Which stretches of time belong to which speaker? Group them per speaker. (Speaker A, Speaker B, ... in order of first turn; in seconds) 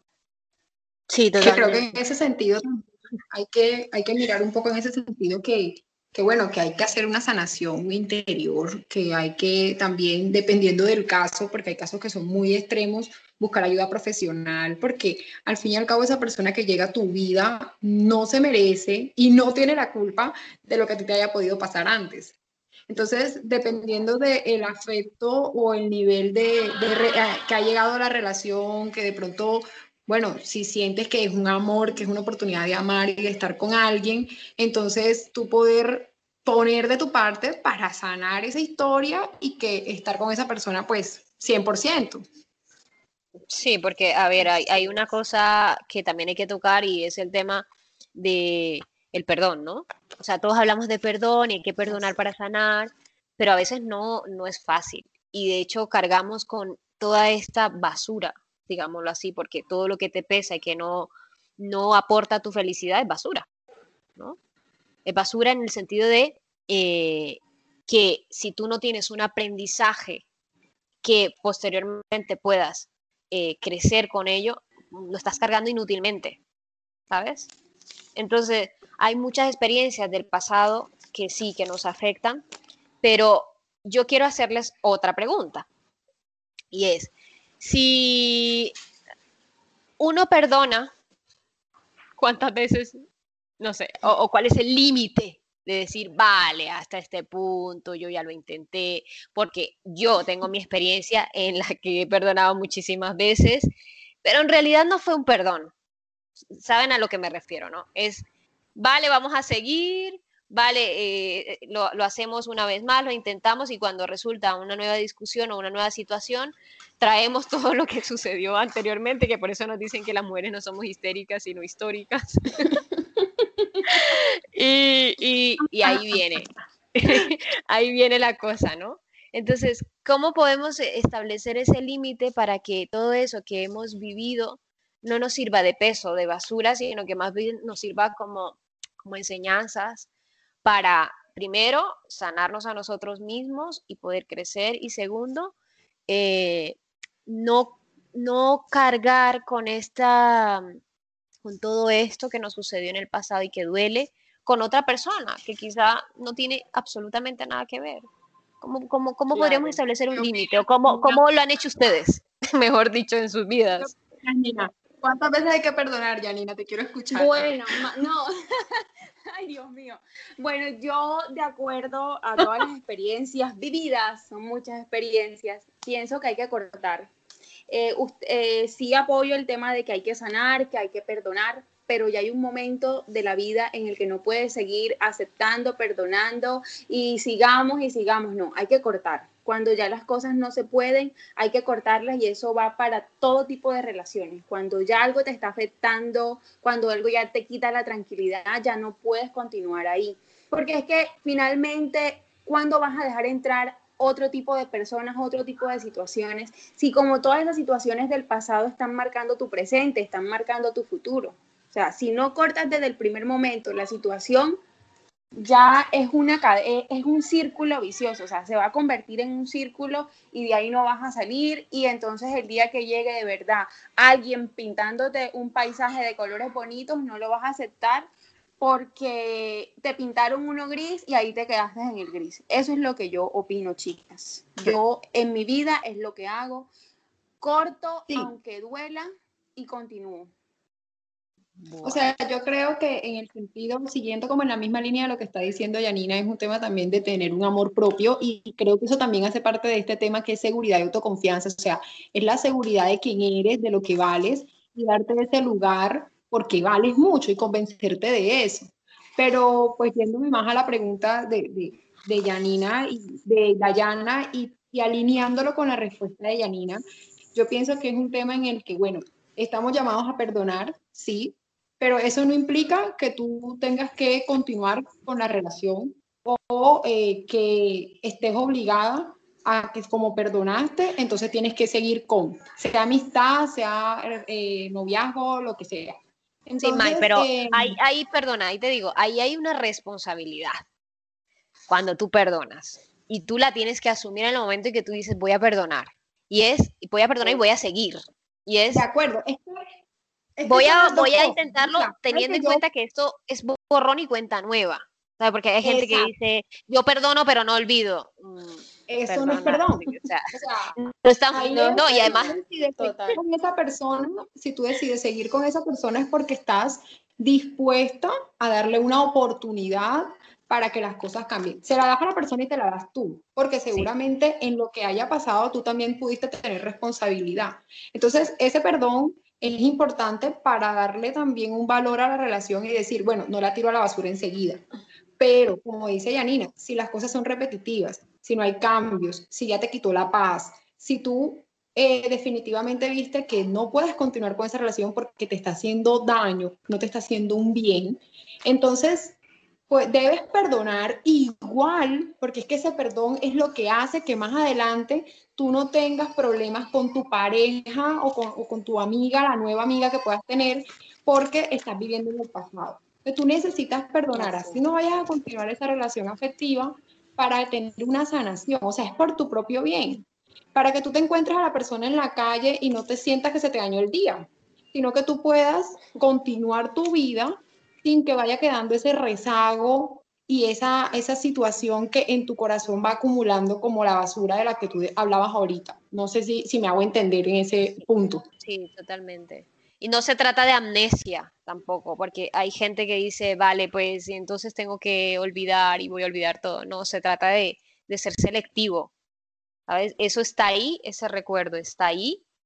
Speaker A: 1.1-1.9, 43.5-63.5, 65.0-70.2, 71.0-76.4, 77.1-77.5, 78.1-82.4, 83.0-85.7, 86.7-88.7, 90.0-90.9, 92.2-93.0, 93.6-103.7, 104.2-105.7, 106.4-122.7, 123.9-140.1, 140.6-145.5, 146.1-150.8, 151.4-158.1, 158.6-163.9, 286.6-290.6, 291.7-298.8, 300.4-312.4, 388.4-398.9, 399.7-402.2
Speaker B: 1.4-22.3, 22.9-42.2, 159.3-161.2, 163.8-167.5, 241.8-266.8, 267.3-287.8, 298.7-299.7, 300.4-302.6, 305.6-306.1, 308.9-310.8, 311.3-334.6, 335.2-349.2, 349.7-370.0, 370.5-388.2
Speaker C: 167.1-177.1, 177.7-214.6, 215.4-236.7, 237.4-240.3, 311.5-313.2, 364.1-364.6